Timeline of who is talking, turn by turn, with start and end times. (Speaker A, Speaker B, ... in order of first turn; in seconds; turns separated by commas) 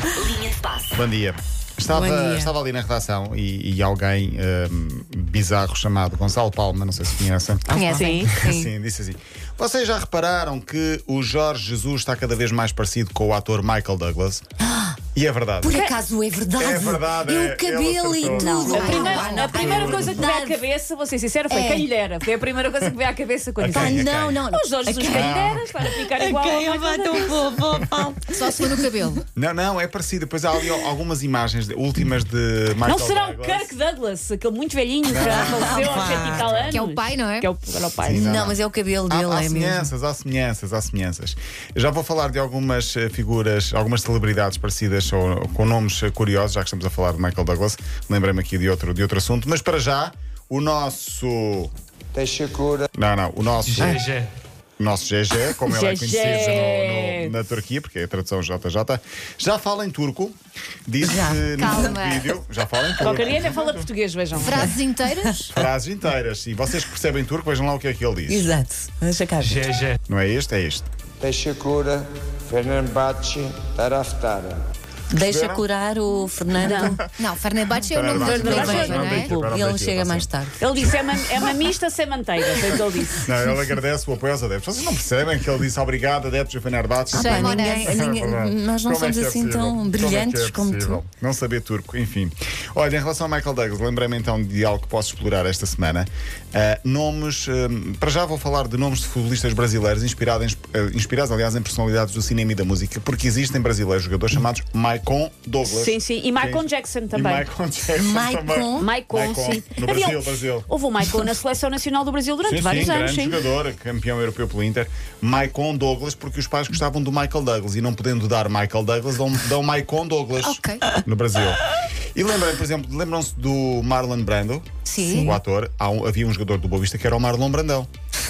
Speaker A: 0.3-0.9, Speaker B: 0.9-14.4, Speaker A: 1.9-2.5, Speaker A: 7.7-8.7, Speaker C: 7.7-8.6, Speaker D: 7.9-8.3, Speaker A: 14.6-15.0, Speaker B: 15.1-15.8, Speaker A: 15.6-20.6, Speaker B: 16.6-20.2, Speaker D: 18.3-27.6, Speaker C: 18.7-20.2, Speaker C: 21.5-21.9, Speaker B: 23.6-24.4, Speaker A: 23.7-28.8, Speaker B: 25.1-25.7, Speaker C: 28.3-29.2, Speaker B: 29.4-33.7, Speaker D: 32.8-38.4, Speaker B: 35.1-36.8, Speaker A: 35.1-36.4, Speaker C: 36.7-37.5, Speaker B: 38.0-51.7, Speaker A: 38.1-39.9, Speaker E: 52.1-52.9, Speaker B: 53.0-54.1, Speaker B: 54.8-60.4, Speaker D: 55.6-57.3, Speaker B: 60.9-63.9, Speaker A: 61.0-61.9, Speaker C: 61.6-62.4, Speaker D: 63.0-64.7, Speaker C: 64.4-65.5, Speaker B: 65.5-68.5, Speaker A: 68.3-69.8, Speaker B: 70.1-70.9, Speaker E: 71.2-74.6, Speaker A: 75.1-77.0, Speaker B: 75.2-75.7, Speaker D: 76.6-77.0, Speaker C: 77.2-79.3, Speaker B: 77.8-80.3, Speaker D: 78.1-79.5, Speaker A: 78.5-80.7, Speaker D: 80.6-83.2, Speaker B: 83.1-110.7, Speaker A: 87.1-91.0, Speaker C: 87.1-88.0, Speaker D: 105.7-107.5, Speaker A: 108.0-108.9, Speaker D: 108.7-113.4, Speaker B: 112.4-127.9, Speaker C: 120.4-120.9, Speaker C: 124.8-125.3, Speaker A: 125.0-125.4